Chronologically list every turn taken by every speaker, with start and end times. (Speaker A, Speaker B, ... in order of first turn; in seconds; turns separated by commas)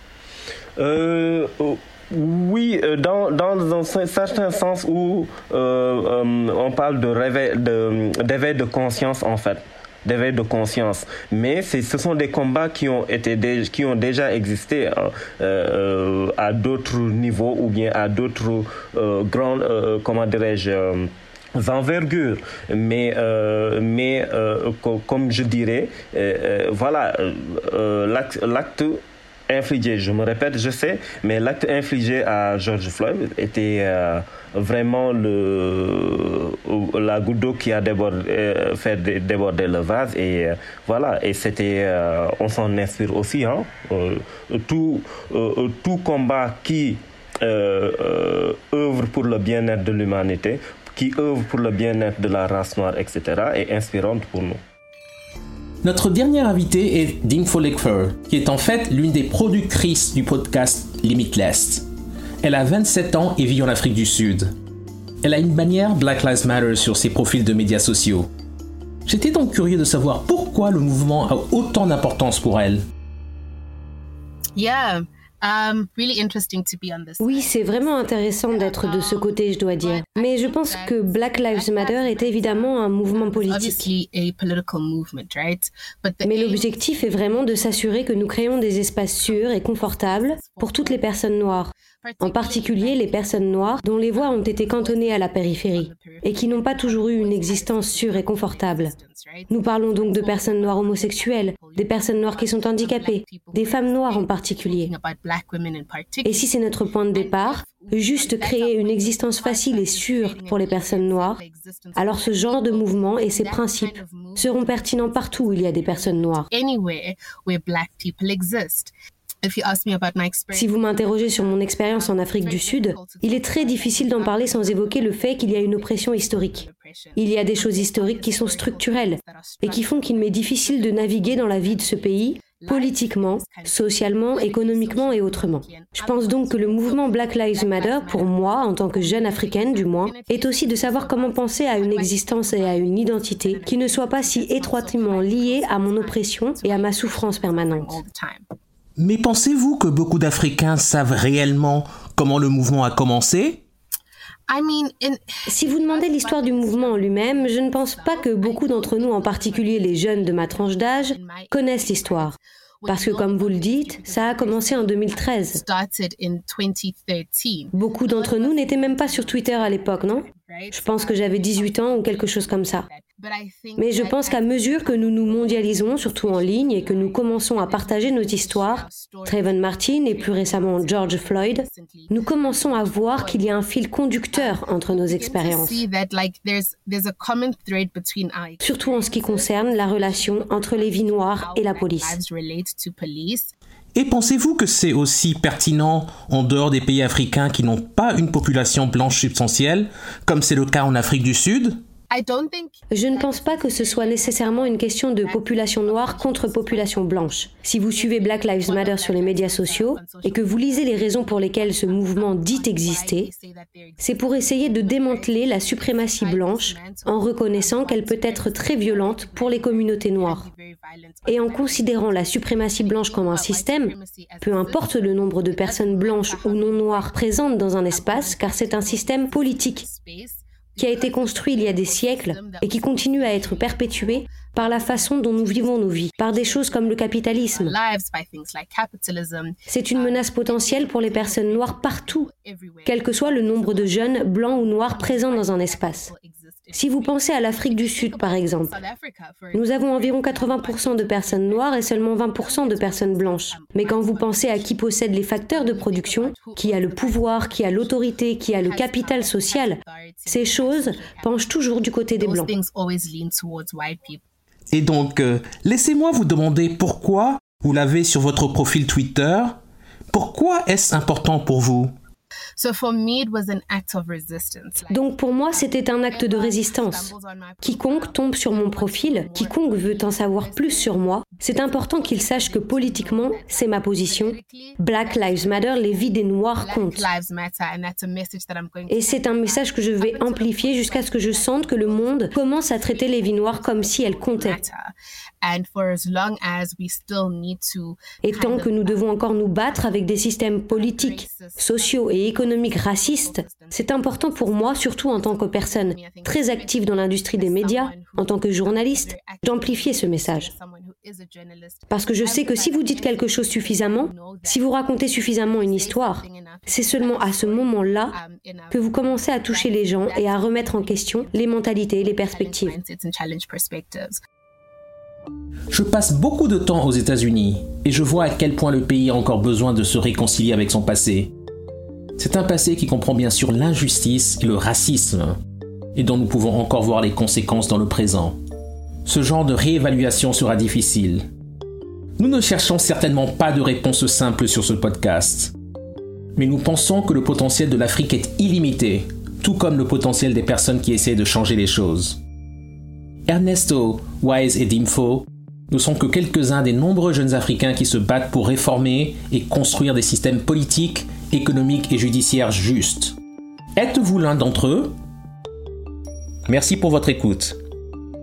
Speaker A: 0.8-54.6, Speaker B: 55.8-61.9, Speaker B: 62.4-64.5, Speaker B: 65.2-68.3, Speaker B: 69.1-72.8, Speaker C: 74.6-88.4, Speaker D: 77.2-83.9, Speaker D: 86.2-98.9, Speaker C: 89.2-91.2, Speaker C: 91.9-118.9, Speaker D: 99.5-104.9, Speaker D: 106.2-111.4, Speaker D: 112.0-116.5, Speaker C: 119.4-148.4, Speaker D: 120.5-126.7, Speaker D: 127.2-148.0, Speaker B: 149.0-153.6, Speaker C: 154.5-183.7, Speaker D: 155.5-162.3, Speaker D: 162.9-165.6, Speaker D: 167.7-172.9, Speaker D: 173.8-185.8, Speaker C: 184.3-193.5, Speaker D: 188.6-192.2, Speaker B: 193.9-201.8, Speaker C: 202.1-207.3, Speaker D: 202.9-213.3, Speaker C: 207.9-261.5, Speaker D: 214.0-220.4, Speaker D: 221.3-229.8, Speaker D: 230.8-237.7, Speaker D: 239.7-242.3, Speaker D: 242.9-246.1, Speaker D: 246.7-248.8, Speaker D: 249.5-262.5, Speaker C: 262.2-264.2, Speaker B: 264.7-269.6, Speaker B: 270.1-271.9, Speaker C: 272.6-286.1, Speaker D: 274.9-287.1, Speaker C: 286.6-324.2, Speaker D: 288.9-294.6, Speaker D: 298.2-310.5, Speaker D: 311.9-318.1, Speaker D: 318.7-322.8, Speaker B: 325.7-331.3, Speaker B: 332.2-335.4, Speaker B: 335.9-338.4, Speaker B: 339.1-341.3, Speaker B: 342.2-345.5, Speaker B: 346.4-352.2, Speaker B: 353.3-363.2, Speaker B: 363.8-364.9, Speaker B: 366.5-367.6